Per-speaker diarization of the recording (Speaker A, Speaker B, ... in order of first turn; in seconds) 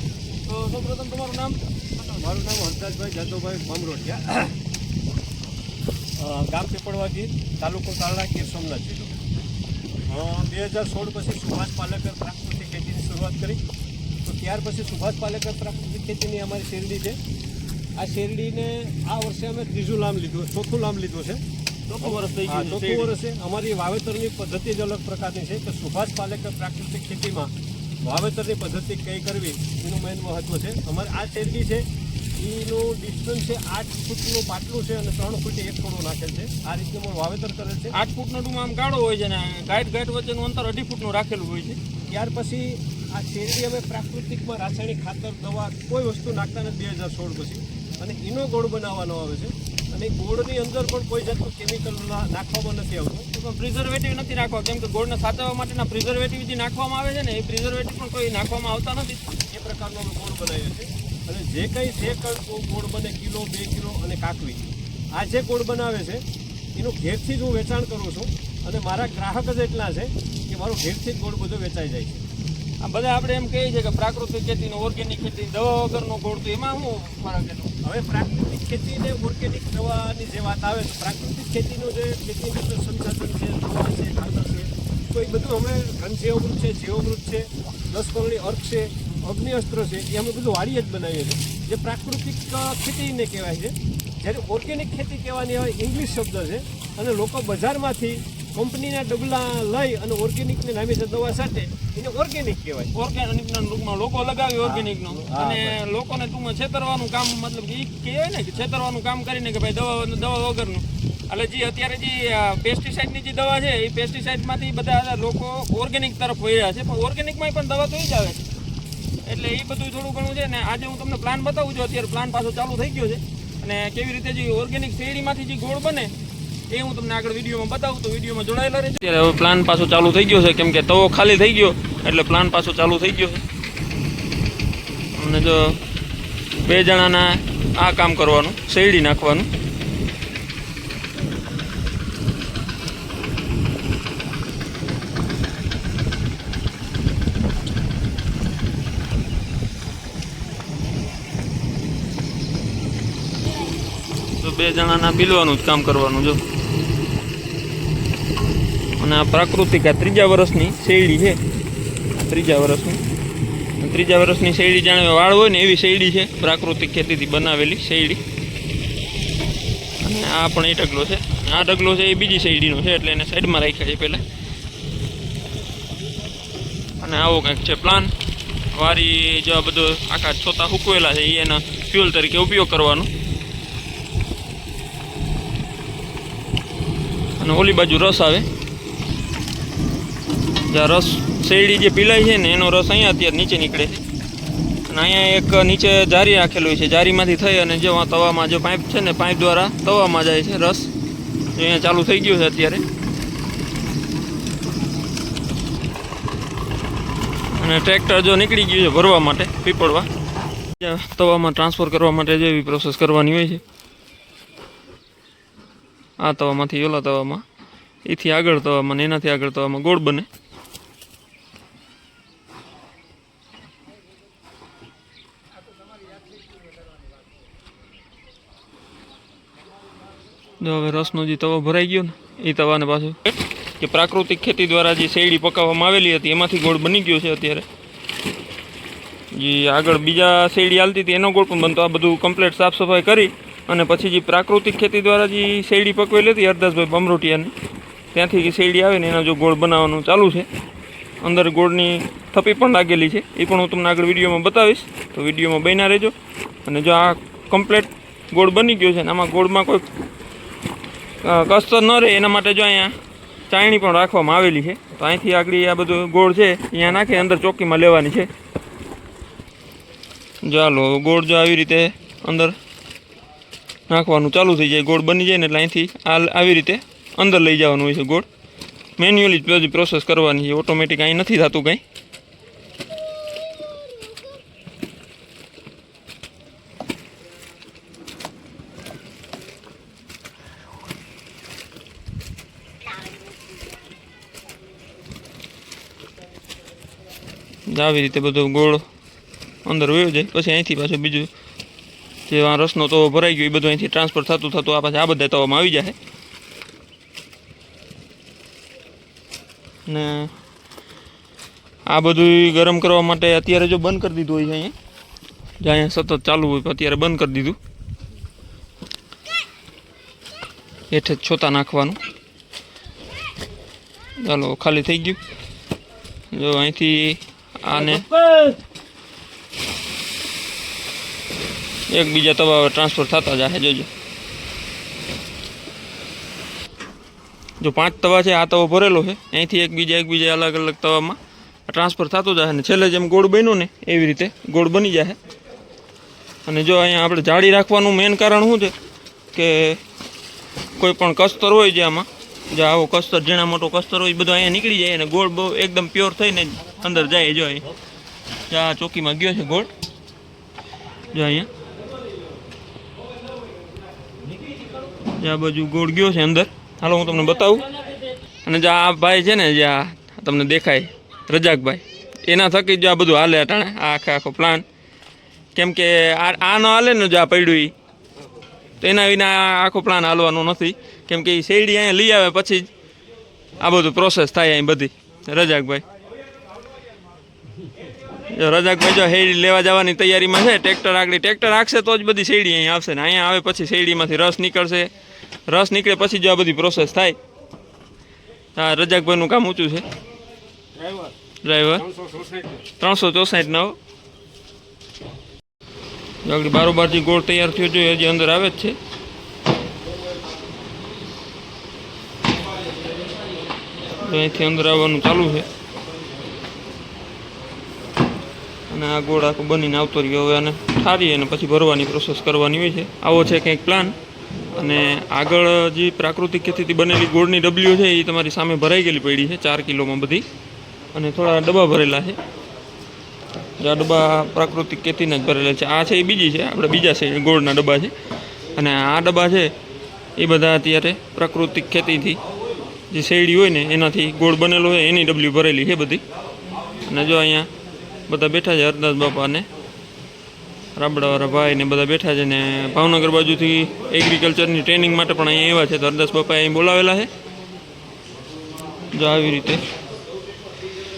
Speaker A: 0.4-1.6, 21.9-23.1, 37.9-41.8, 53.3-59.4, 72.8-77.7, 102.9-118.4, 119.2-126.1, 126.7-133.4, 135.1-135.8, 136.6-139.5, 154.4-156.4, 159.0-161.4, 162.1-163.0, 163.8-168.2, 170.0-174.2, 177.0-178.1, 178.7-183.1, 187.4-188.5, 190.7-194.0, 194.9-200.9, 201.5-202.8, 207.5-210.1, 210.8-213.6, 216.2-217.4, 218.1-220.3, 230.6-237.7, 239.3-247.5, 248.1-250.5, 251.2-256.1, 256.6-259.8, 261.2-262.9, 263.5-268.3, 270.4-272.5, 273.9-278.3, 279.0-281.8, 297.7-298.8, 299.6-301.3, 302.3-305.9, 309.9-310.3, 311.9-314.7, 315.6-317.6, 320.9-322.0, 324.2-325.2, 326.3-328.1, 331.9-333.9, 337.6-345.2, 346.4-348.7, 349.3-349.8, 350.8-357.7, 358.5-359.7, 361.1-361.5, 365.2-367.7, 368.4-374.6, 375.5-377.7, 378.8-382.7, 383.6-385.8, 388.3-394.9, 395.5-397.2, 398.5-399.9, 401.4-401.9, 402.8-403.8, 406.2-408.8, 413.9-415.5, 418.7-423.9, 424.5-430.2, 430.9-432.2, 433.6-437.9, 438.6-439.5, 440.2-442.2, 442.9-446.0, 446.8-447.5, 448.1-449.5, 450.8-457.1, 458.9-459.6
Speaker B: 2.2-4.5, 6.2-9.1, 10.1-13.6, 14.2-17.2, 17.9-21.4, 22.0-31.9, 32.4-38.0, 42.1-53.3, 59.5-66.2, 66.7-72.2, 77.8-102.9, 104.6-105.8, 328.2-328.5, 400.7-401.1, 401.8-402.6